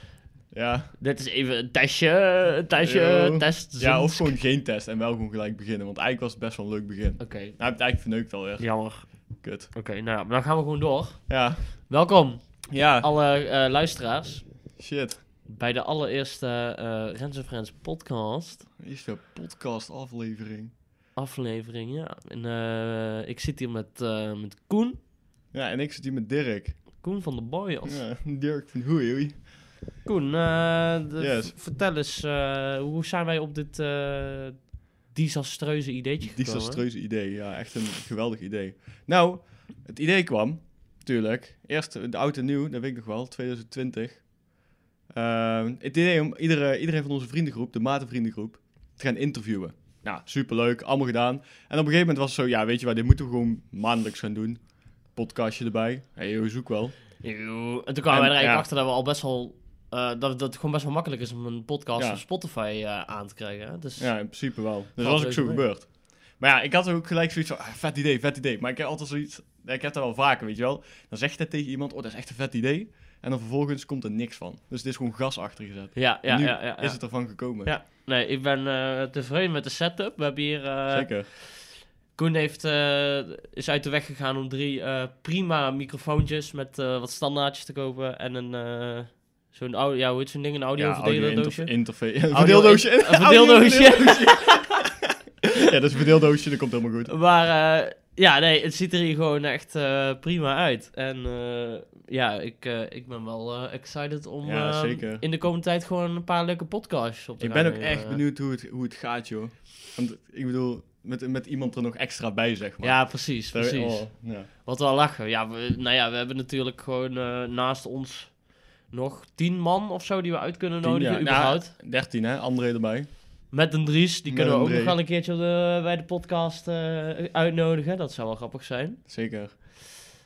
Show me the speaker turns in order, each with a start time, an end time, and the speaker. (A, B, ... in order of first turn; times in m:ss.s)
0:00.5-0:00.9 A
0:01.0-0:04.4 B
0:02.8-0:09.7 A
0:07.2-0:07.6 B
0:08.6-0:14.5 B
0:11.3-0:11.7 A
0:12.7-0:13.1 A
0:14.8-0:15.2 A
0:15.4-0:18.7 B
0:18.8-0:20.7 A
0:21.2-0:25.0 B
0:25.5-0:26.8 A
0:27.0-0:28.0 B
0:27.8-0:29.5 A
0:30.0-0:36.8 B
0:31.2-0:31.6 A
0:36.2-0:44.3 A
0:45.1-0:57.0 A
0:57.2-1:05.7 B
0:58.1-0:58.7 A
1:02.0-1:02.2 A
1:04.0-1:17.8 A
1:16.0-1:34.8 B
1:20.9-1:21.3 A
1:30.8-1:35.0 A
1:35.6-1:37.1 A
1:37.1-1:48.2 B
1:44.4-1:45.2 A
1:47.4-1:54.5 A
1:52.8-2:01.7 B
2:00.8-2:03.1 A
2:03.5-2:09.0 B
2:04.3-2:05.0 A
2:09.1-2:10.1 A